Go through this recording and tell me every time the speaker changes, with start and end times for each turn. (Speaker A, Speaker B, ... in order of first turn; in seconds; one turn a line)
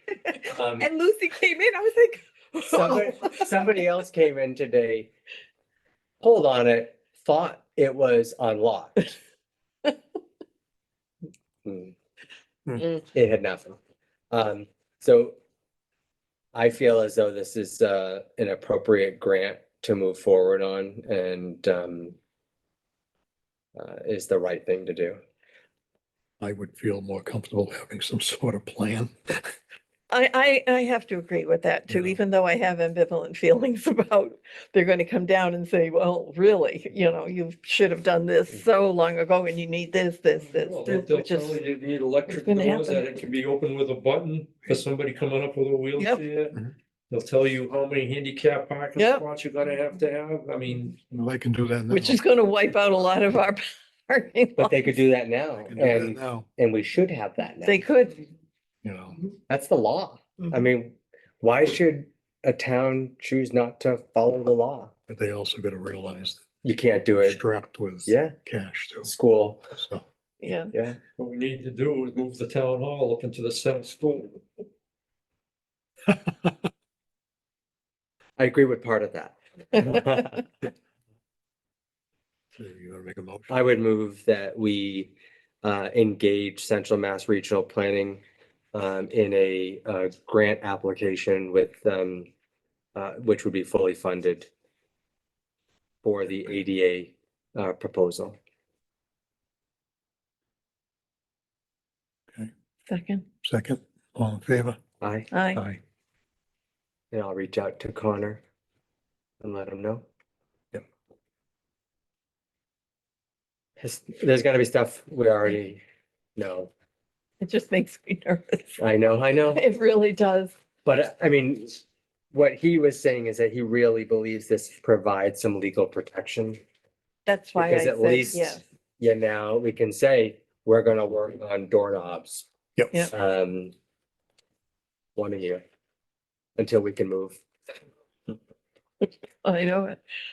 Speaker A: 0.2-3.1
Speaker B: 0.5-0.9
Speaker B: 2.7-5.1
Speaker B: 6.2-9.1
Speaker B: 11.6-11.9
Speaker B: 13.1-13.8
Speaker B: 14.3-15.3
Speaker B: 16.5-22.1
Speaker B: 23.8-25.2
Speaker C: 26.4-29.4
Speaker D: 30.1-41.6
Speaker C: 31.9-32.2
Speaker E: 40.4-46.5
Speaker D: 42.3-43.0
Speaker E: 47.1-51.0
Speaker D: 49.0-49.2
Speaker C: 51.0-52.2
Speaker D: 51.9-54.7
Speaker B: 54.6-57.8
Speaker C: 55.6-56.5
Speaker D: 57.6-58.3
Speaker C: 58.8-59.2
Speaker B: 59.5-64.9
Speaker C: 65.1-66.4
Speaker B: 66.6-67.4
Speaker C: 67.2-69.1
Speaker B: 68.0-68.3
Speaker B: 69.0-69.7
Speaker C: 69.7-70.0
Speaker D: 70.4-70.7
Speaker B: 70.7-71.0
Speaker E: 71.2-74.4
Speaker B: 78.4-80.4
Speaker C: 82.5-83.6
Speaker B: 83.5-88.2
Speaker B: 88.7-92.3
Speaker B: 93.0-94.5
Speaker B: 96.0-98.4
Speaker D: 102.9-103.2
Speaker C: 103.4-104.8
Speaker B: 105.0-105.3
Speaker D: 105.3-105.6
Speaker C: 105.5-105.8
Speaker B: 107.1-108.4
Speaker B: 109.4-110.0
Speaker B: 113.8-115.8
Speaker B: 116.4-116.7
Speaker D: 117.4-118.8
Speaker B: 118.8-119.6
Speaker D: 119.5-120.5
Speaker B: 120.8-126.6
Speaker D: 127.2-128.6
Speaker B: 127.5-132.5
Speaker B: 133.1-133.7
Speaker B: 135.2-135.6
Speaker B: 136.6-137.4
Speaker D: 139.4-140.0